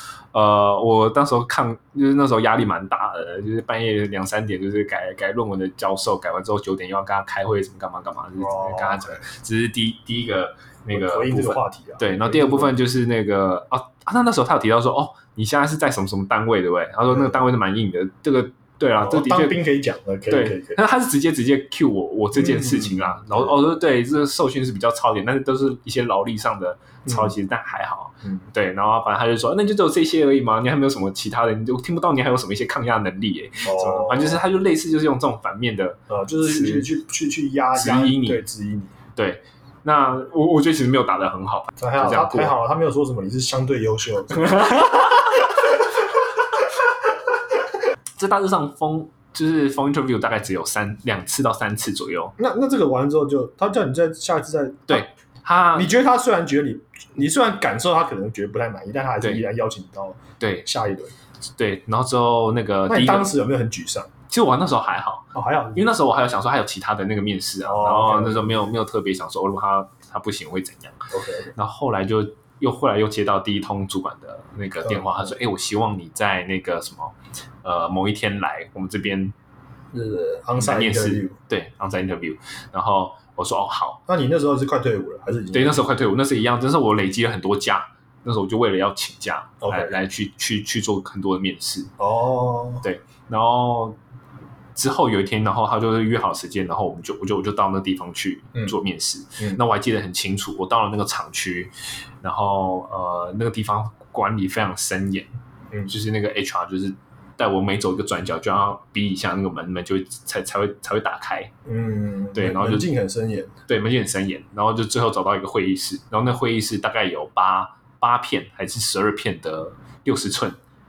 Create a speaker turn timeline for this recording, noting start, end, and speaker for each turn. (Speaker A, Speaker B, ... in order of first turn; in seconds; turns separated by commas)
Speaker A: 0.3-19.6, Speaker B: 8.4-9.2, Speaker B: 10.9-12.7, Speaker B: 17.1-17.4, Speaker B: 19.0-20.8, Speaker A: 20.3-36.9, Speaker B: 22.4-23.6, Speaker B: 33.6-34.4, Speaker B: 36.1-38.9, Speaker A: 37.7-38.4, Speaker A: 39.1-42.5, Speaker B: 41.8-45.1, Speaker A: 44.5-44.9, Speaker A: 48.2-52.3, Speaker B: 52.4-55.0, Speaker A: 54.9-55.9, Speaker B: 55.7-61.1, Speaker A: 60.4-60.6, Speaker A: 61.6-63.3, Speaker B: 62.9-64.1, Speaker A: 64.3-71.0, Speaker B: 65.3-65.9, Speaker B: 67.6-68.5, Speaker B: 71.1-71.5, Speaker A: 71.5-79.3, Speaker B: 74.8-75.2, Speaker B: 79.9-81.3, Speaker A: 80.6-84.0, Speaker B: 84.1-85.8, Speaker A: 85.5-91.9, Speaker B: 89.6-89.9, Speaker B: 92.0-92.8, Speaker A: 92.8-94.0, Speaker A: 94.8-105.3, Speaker A: 105.8-111.5, Speaker B: 111.7-113.5, Speaker A: 112.3-112.9, Speaker A: 113.7-120.6